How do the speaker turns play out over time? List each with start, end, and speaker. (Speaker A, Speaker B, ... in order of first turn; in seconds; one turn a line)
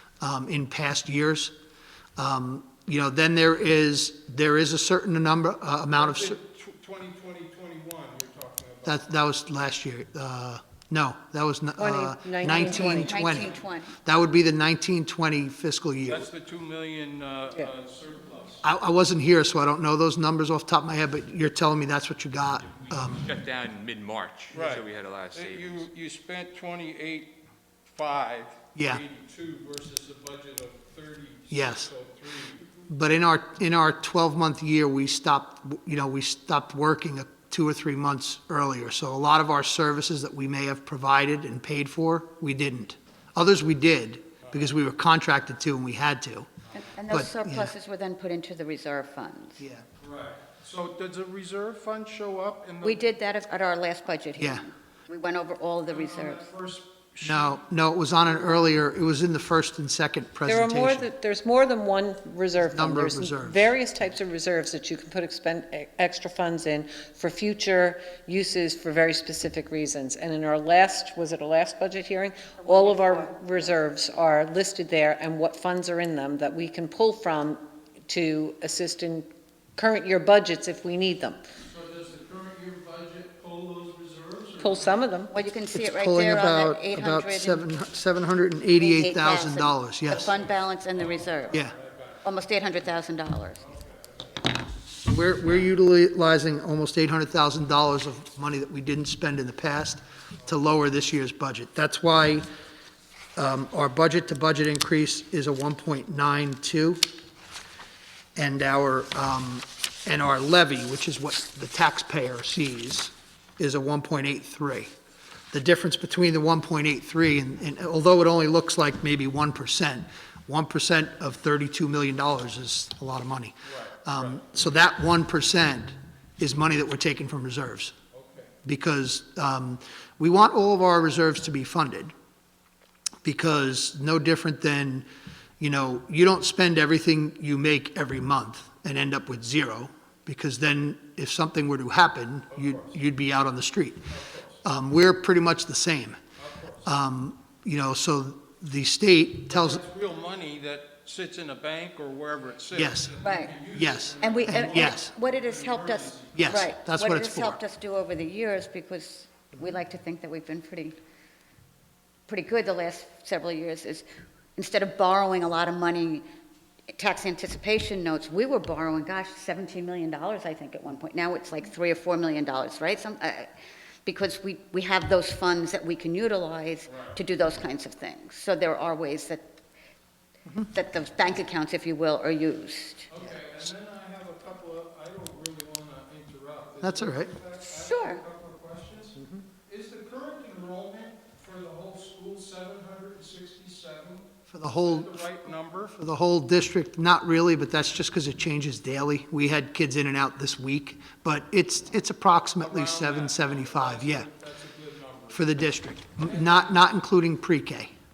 Speaker A: 0.2-1.5
Speaker A: 2.2-6.4
Speaker B: 5.9-9.1
Speaker A: 8.8-16.3
Speaker C: 11.8-13.2
Speaker D: 12.6-13.9
Speaker B: 16.1-18.6
Speaker A: 18.6-23.2
Speaker E: 22.8-25.8
Speaker B: 24.5-27.3
Speaker B: 27.9-32.7
Speaker A: 28.7-29.0
Speaker A: 31.5-31.9
Speaker A: 32.9-46.5
Speaker D: 46.8-49.6
Speaker A: 47.1-47.7
Speaker A: 49.6-49.9
Speaker B: 50.0-53.1
Speaker D: 52.8-56.5
Speaker A: 54.4-54.6
Speaker B: 55.9-57.6
Speaker A: 57.2-61.1
Speaker C: 60.4-81.4
Speaker A: 62.5-63.8
Speaker D: 72.7-73.2
Speaker B: 81.6-85.1
Speaker C: 84.6-85.3
Speaker D: 85.3-87.6
Speaker A: 85.7-90.3
Speaker D: 88.8-91.5
Speaker B: 90.9-92.3
Speaker D: 92.2-93.6
Speaker B: 93.6-94.5
Speaker A: 95.0-102.5
Speaker A: 103.4-107.1
Speaker A: 108.3-114.9
Speaker A: 115.5-127.9
Speaker B: 123.6-124.4
Speaker B: 128.1-128.5
Speaker A: 128.6-132.1
Speaker A: 133.2-135.1
Speaker A: 135.6-144.0
Speaker B: 142.5-143.0
Speaker B: 144.1-144.6
Speaker A: 144.6-146.2
Speaker B: 146.4-146.9
Speaker A: 146.8-149.8
Speaker B: 149.5-156.7
Speaker A: 152.7-153.1
Speaker D: 153.2-153.5
Speaker A: 153.7-155.1
Speaker D: 154.2-160.9
Speaker A: 156.3-157.6
Speaker D: 162.3-166.2
Speaker D: 166.9-173.5
Speaker D: 174.1-179.4
Speaker B: 176.8-177.2
Speaker D: 180.7-183.1
Speaker B: 183.1-195.9
Speaker A: 186.8-187.3
Speaker D: 187.9-188.2
Speaker A: 194.5-195.2
Speaker A: 195.9-204.3
Speaker B: 202.6-205.5
Speaker A: 205.3-207.9
Speaker B: 206.2-206.7